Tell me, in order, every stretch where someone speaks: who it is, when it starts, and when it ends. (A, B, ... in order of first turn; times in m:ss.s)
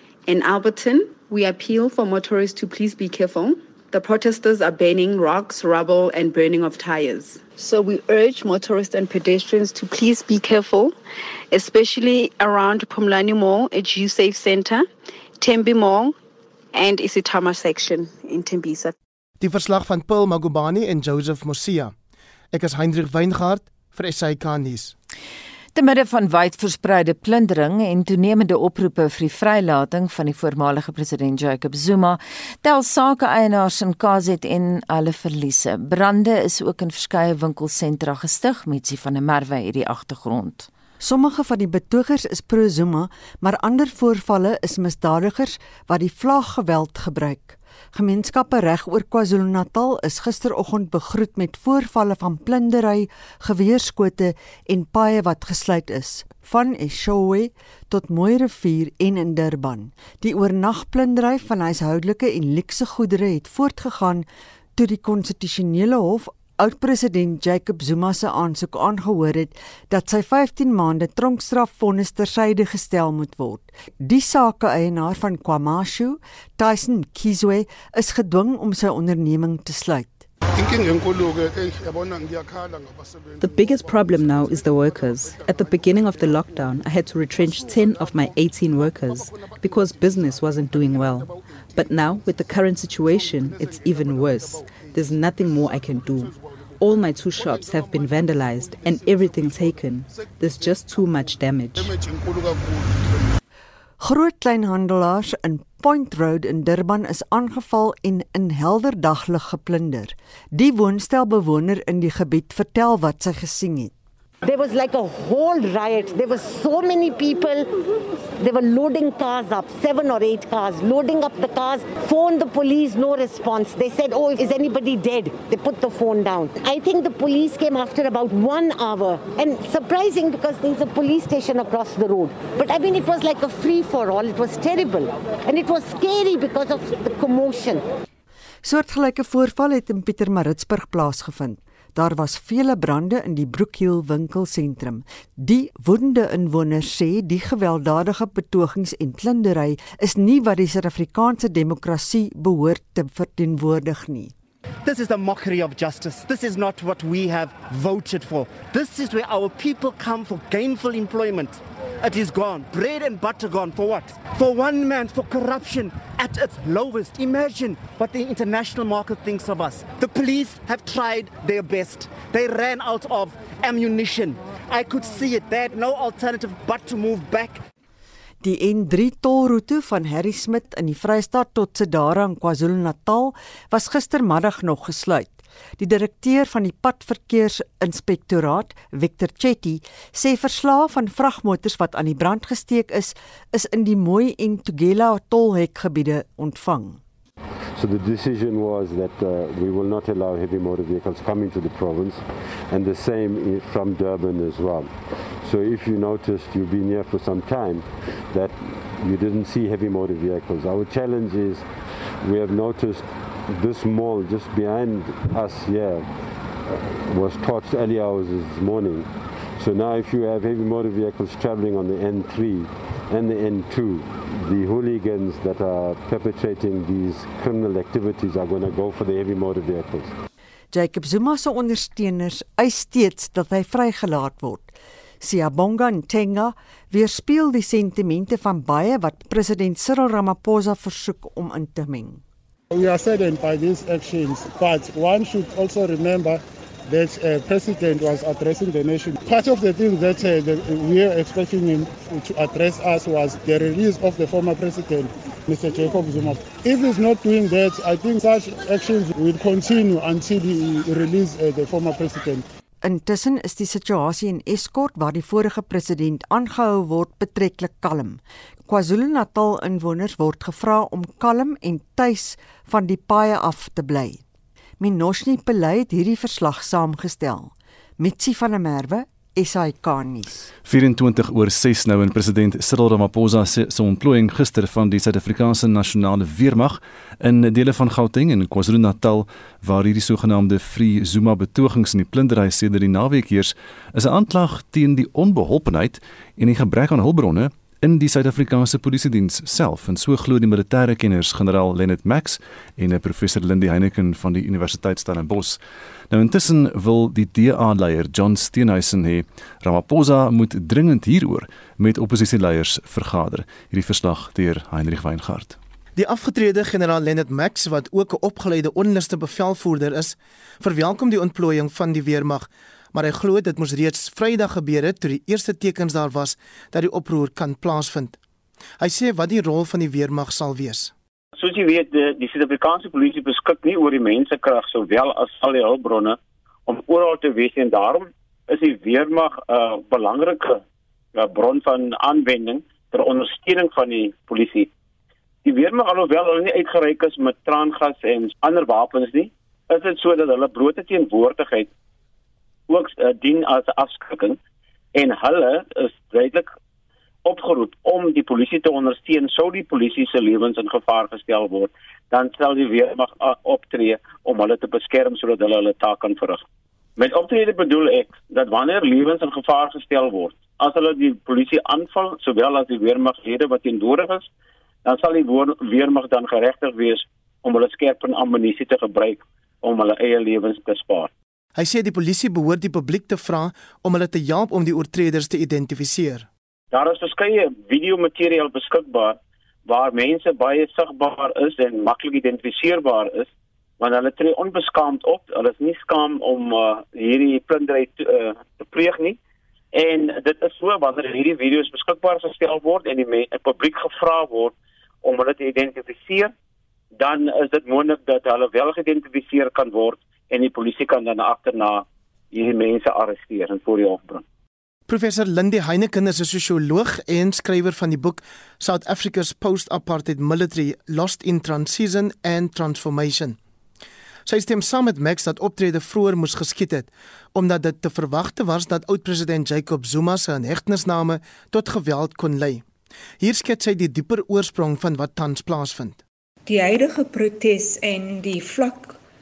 0:00.3-0:11.0 A
0:11.5-0:16.2 A
0:16.7-0:19.0 A
0:19.4-0:21.9 B
0:22.5-0:24.9 B
0:25.7-0:40.7 C
0:41.0-1:20.2 D
1:20.6-1:22.8 E
1:23.4-1:42.0 F
1:44.0-1:53.9 D
1:54.4-1:57.7 G
1:58.4-2:17.8 G
2:18.6-2:34.3 D
2:34.8-2:57.6 H
2:58.4-3:17.0 D
3:17.8-3:31.7 I
3:32.2-3:36.1 I
3:36.7-3:50.2 I
3:50.7-4:02.2 D
4:02.7-4:22.4 E
4:22.8-4:34.2 D
4:34.8-4:40.5 D
4:40.6-5:05.6 J
5:06.1-5:15.6 J
5:16.0-5:28.2 B
5:28.8-5:30.9 B
5:31.4-5:40.6 K
5:41.2-5:44.7 K
5:45.4-5:51.7 K
5:52.7-5:54.4 K
5:54.9-5:56.5 K
5:57.2-6:06.4 K
6:07.0-6:14.3 K
6:14.8-6:21.1 K
6:21.6-6:26.3 B
6:26.7-6:33.3 K
6:33.8-6:39.2 K
6:39.7-6:46.3 K
6:47.0-6:54.2 K
6:54.9-7:03.4 B
7:04.3-7:12.6 B
7:13.2-7:16.0 B
7:16.5-7:19.0 L